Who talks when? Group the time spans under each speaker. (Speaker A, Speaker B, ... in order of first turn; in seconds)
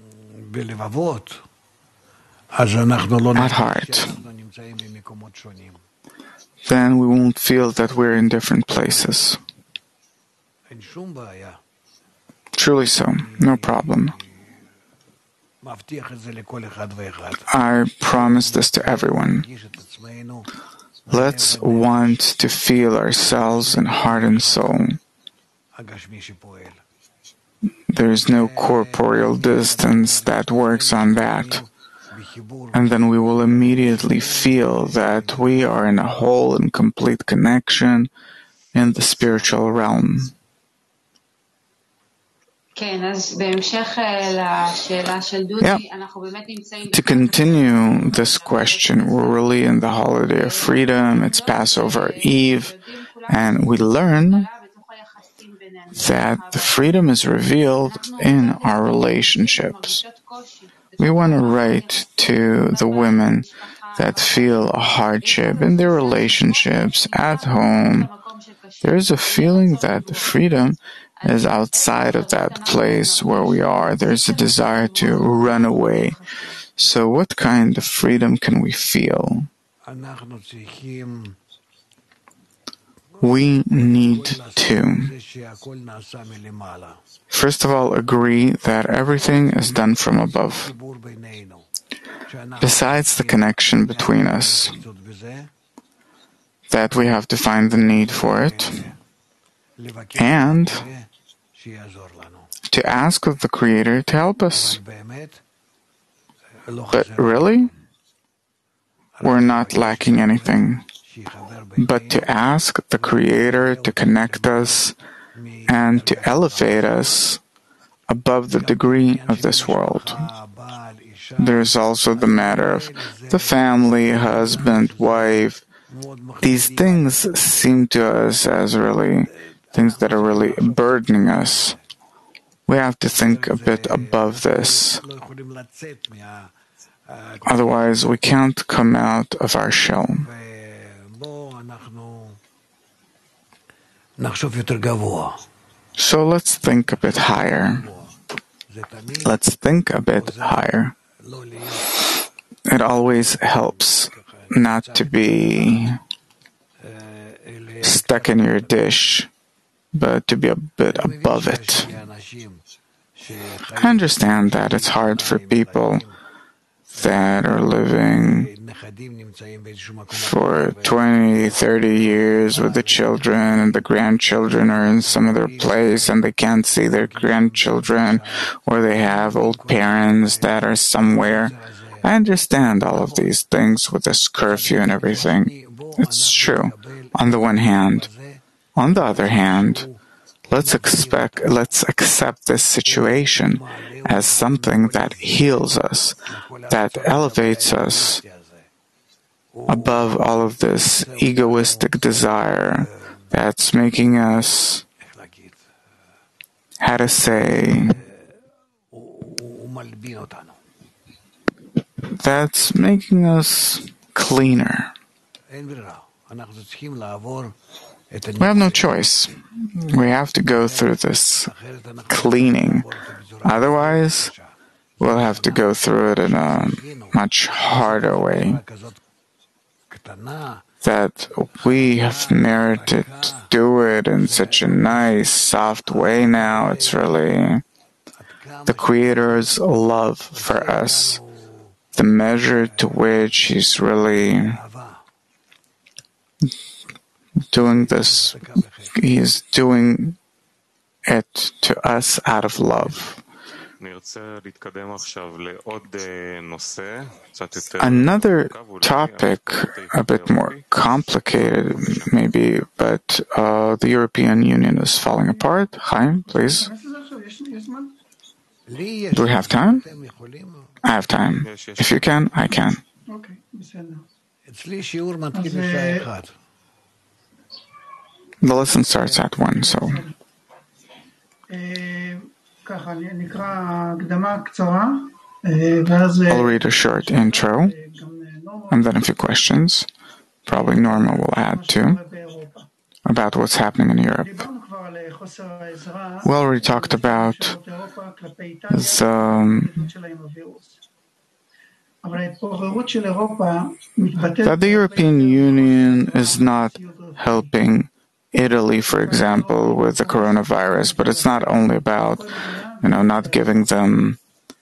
Speaker A: 3.3-4.2, 6.7-9.4, 12.6-14.2, 17.5-19.5, 21.1-25.0, 27.9-31.6, 32.7-38.1, 38.7-40.3, 46.9-52.7, 53.3-54.5, 55.9-60.0, 61.0-68.1, 68.8-76.2, 76.8-79.5, 83.2-85.1, 87.3-90.7, 92.6-94.8, 96.7-98.9, 100.2-100.9, 102.7-104.8, 106.9-107.7, 109.2-110.8, 111.8-115.0, 115.7-117.4, 118.1-120.3, 121.4-125.6, 126.4-131.8, 132.7-135.0, 137.4-140.3, 146.0-147.9, 149.2-150.9, 152.7-156.0, 157.8-159.3, 159.9-161.9, 163.8-166.1, 166.9-168.5, 170.1-188.1, 188.8-189.9, 190.5-196.2, 196.7-198.2, 199.7-204.8, 206.8-208.0, 212.1-214.9, 218.4-221.5, 222.1-222.9, 223.4-224.3, 225.0-228.6, 230.8-237.6, 238.7-241.2, 241.9-244.6, 247.5-250.2, 251.1-253.2, 257.8-266.7, 269.1-269.9, 270.8-272.8, 278.4-280.1, 286.3-287.8, 288.7-289.9, 290.5-292.0, 293.1-294.5, 296.2-297.6, 298.7-299.9, 304.4-312.3, 312.8-314.2
Speaker B: 42.8-46.9, 55.1-55.6
Speaker C: 266.6-268.0, 273.1-274.1, 275.3-276.2, 281.5-286.2, 295.4-295.9, 300.0-300.6, 302.1-304.3